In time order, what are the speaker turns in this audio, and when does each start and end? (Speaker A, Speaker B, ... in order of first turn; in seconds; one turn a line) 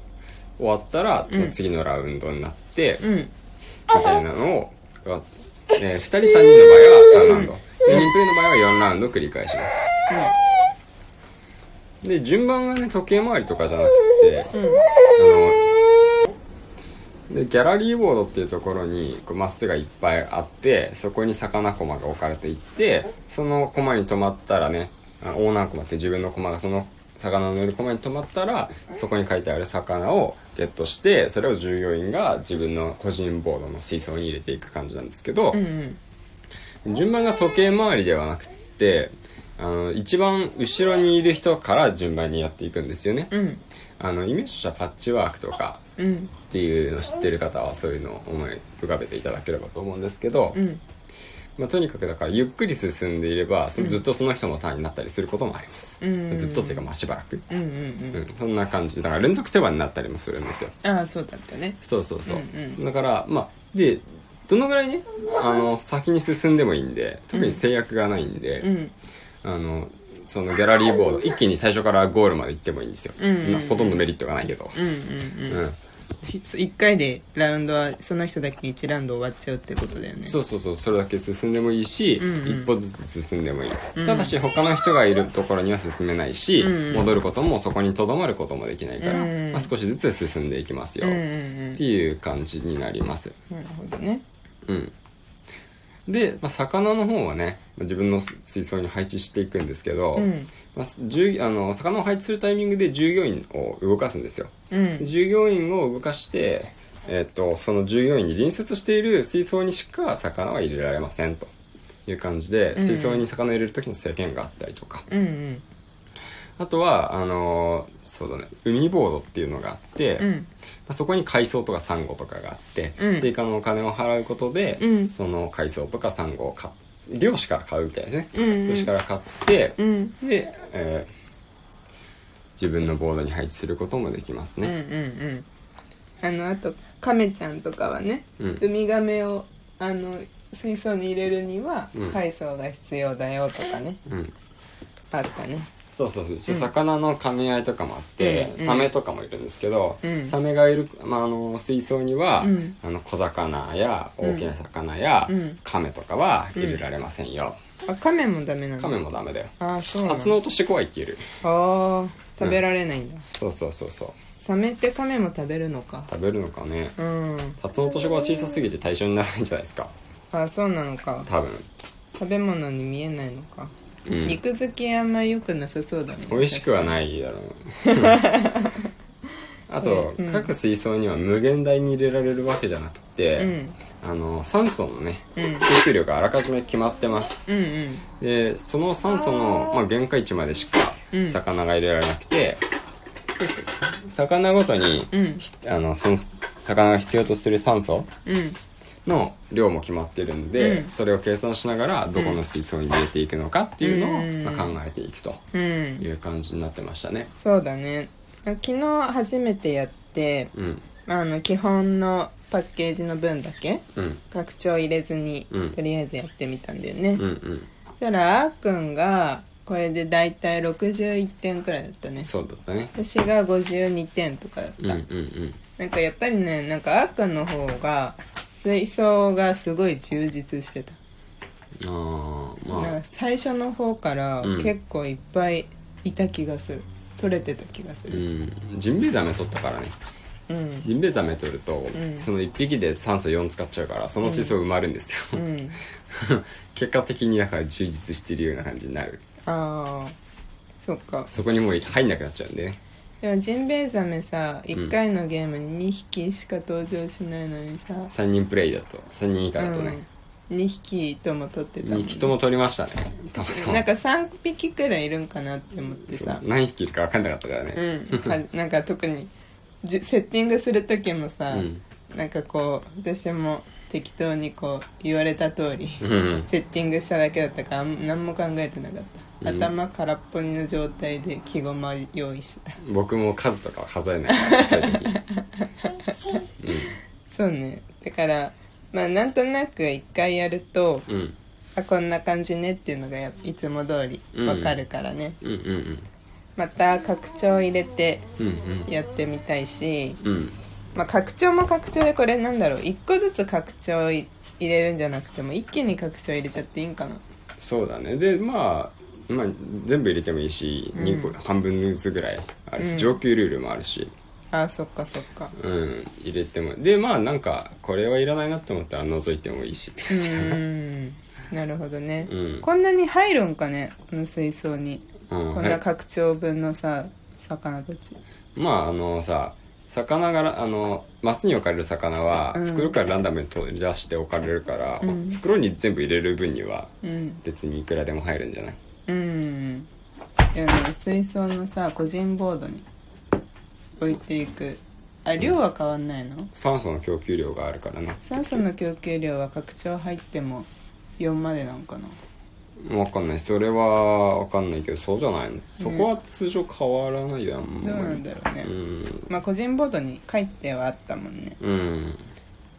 Speaker A: 0.6-3.0
Speaker B: 1.3-1.6
Speaker B: 3.0-3.3
Speaker A: 3.9-9.8
Speaker B: 7.2-8.1
Speaker B: 10.1-10.3
Speaker A: 12.0-14.6
Speaker B: 14.5-14.8
Speaker A: 15.1-15.8
Speaker A: 17.3-35.6
Speaker B: 35.5-36.0
Speaker A: 36.8-43.3
Speaker B: 43.3-43.6
Speaker A: 44.0-45.8
Speaker B: 46.0-46.4
Speaker A: 46.4-50.6
Speaker B: 50.5-50.8
Speaker A: 51.6-57.4
Speaker B: 53.8-54.0
Speaker B: 56.0-56.9
Speaker B: 57.5-58.2
Speaker A: 58.1-60.7
Speaker B: 60.8-62.8
Speaker A: 61.8-68.7
Speaker B: 67.3-67.6
Speaker B: 68.6-68.9
Speaker A: 69.4-74.8
Speaker B: 73.2-74.0
Speaker B: 74.7-75.6
Speaker A: 75.5-75.8
Speaker B: 76.2-80.3
Speaker A: 80.2-91.2
Speaker B: 82.2-82.8
Speaker B: 83.9-84.3
Speaker B: 86.6-87.2
Speaker B: 89.0-89.7
Speaker B: 91.0-91.8
Speaker A: 91.8-93.3
Speaker B: 93.5-94.2
Speaker A: 94.7-94.9
Speaker A: 96.1-111.5
Speaker B: 100.1-100.5
Speaker B: 104.7-105.1
Speaker A: 112.0-115.0
Speaker B: 112.7-113.2
Speaker B: 115.1-115.6
Speaker A: 116.6-120.3
Speaker B: 120.2-120.5
Speaker A: 120.9-131.1
Speaker B: 123.0-123.3
Speaker B: 124.8-125.1
Speaker B: 128.3-128.9
Speaker B: 129.8-130.2
Speaker A: 132.6-134.7
Speaker B: 134.6-135.4
Speaker B: 136.2-144.0
Speaker A: 141.9-142.2
Speaker A: 144.1-144.3
Speaker B: 145.1-145.7
Speaker A: 145.9-157.6
Speaker B: 148.2-148.9
Speaker B: 150.0-150.3
Speaker B: 152.4-152.8
Speaker B: 154.2-154.5
Speaker B: 155.3-155.6
Speaker B: 156.5-156.8
Speaker B: 157.8-159.0
Speaker A: 158.8-161.2
Speaker B: 159.6-160.4
Speaker B: 161.4-163.2
Speaker A: 163.3-164.2
Speaker B: 164.3-166.1
Speaker A: 166.1-166.9
Speaker B: 167.0-167.6
Speaker A: 167.6-169.9
Speaker B: 170.3-171.3
Speaker A: 171.2-171.7
Speaker B: 172.2-177.0
Speaker A: 174.1-174.4
Speaker A: 176.3-178.3
Speaker B: 177.8-178.9
Speaker A: 179.7-187.5
Speaker B: 179.8-180.5
Speaker B: 183.3-183.9
Speaker B: 185.3-185.7
Speaker B: 187.5-188.1
Speaker A: 188.2-192.6
Speaker B: 191.1-191.4
Speaker A: 193.4-198.1
Speaker B: 195.1-195.4
Speaker B: 198.2-198.6
Speaker A: 199.0-205.4
Speaker B: 200.6-200.9
Speaker B: 202.1-202.4
Speaker B: 203.8-204.8
Speaker B: 205.5-206.1
Speaker A: 206.0-207.3
Speaker B: 207.3-217.2
Speaker A: 210.5-210.9
Speaker A: 213.9-214.2
Speaker A: 215.5-215.8
Speaker A: 217.2-217.7
Speaker B: 218.0-222.3
Speaker A: 222.2-222.9
Speaker B: 222.9-225.0
Speaker A: 224.8-225.6
Speaker B: 225.7-231.0
Speaker A: 231.8-233.0
Speaker B: 232.7-238.3
Speaker A: 234.4-234.7
Speaker A: 238.1-239.9
Speaker B: 240.5-240.8
Speaker A: 240.8-245.4
Speaker B: 241.9-242.3
Speaker B: 244.2-244.6
Speaker B: 245.3-245.8
Speaker A: 246.1-249.2
Speaker B: 249.4-250.1
Speaker B: 250.8-251.3
Speaker A: 251.3-252.8
Speaker B: 253.2-258.1
Speaker A: 258.1-260.0
Speaker B: 259.6-262.4
Speaker A: 261.8-263.9
Speaker B: 263.4-266.4
Speaker A: 266.1-268.4
Speaker B: 267.7-269.3
Speaker B: 269.8-282.8
Speaker A: 271.5-271.8
Speaker A: 276.0-276.5
Speaker A: 279.4-279.7
Speaker A: 282.8-285.1
Speaker B: 284.3-291.1
Speaker A: 286.6-286.9
Speaker A: 291.1-291.4
Speaker B: 291.8-295.4
Speaker A: 294.3-294.8
Speaker A: 295.4-296.1
Speaker B: 296.6-298.3
Speaker A: 298.4-298.9
Speaker B: 298.9-300.2
Speaker A: 300.2-300.6
Speaker B: 300.9-307.2
Speaker A: 307.6-314.1
Speaker B: 310.9-311.4
Speaker B: 312.8-313.2
Speaker B: 314.5-315.5
Speaker A: 315.5-320.6
Speaker B: 320.1-328.2
Speaker A: 322.3-322.7
Speaker A: 325.3-325.8
Speaker A: 328.6-336.9
Speaker B: 332.5-332.9
Speaker B: 335.0-335.4
Speaker B: 337.0-337.4
Speaker A: 337.4-338.8
Speaker B: 339.1-339.9
Speaker B: 340.5-342.9
Speaker B: 344.0-346.5
Speaker A: 346.5-348.6
Speaker B: 348.2-352.2
Speaker A: 352.8-359.3
Speaker B: 355.8-356.1
Speaker B: 357.8-358.7
Speaker B: 359.3-361.6
Speaker A: 361.6-362.2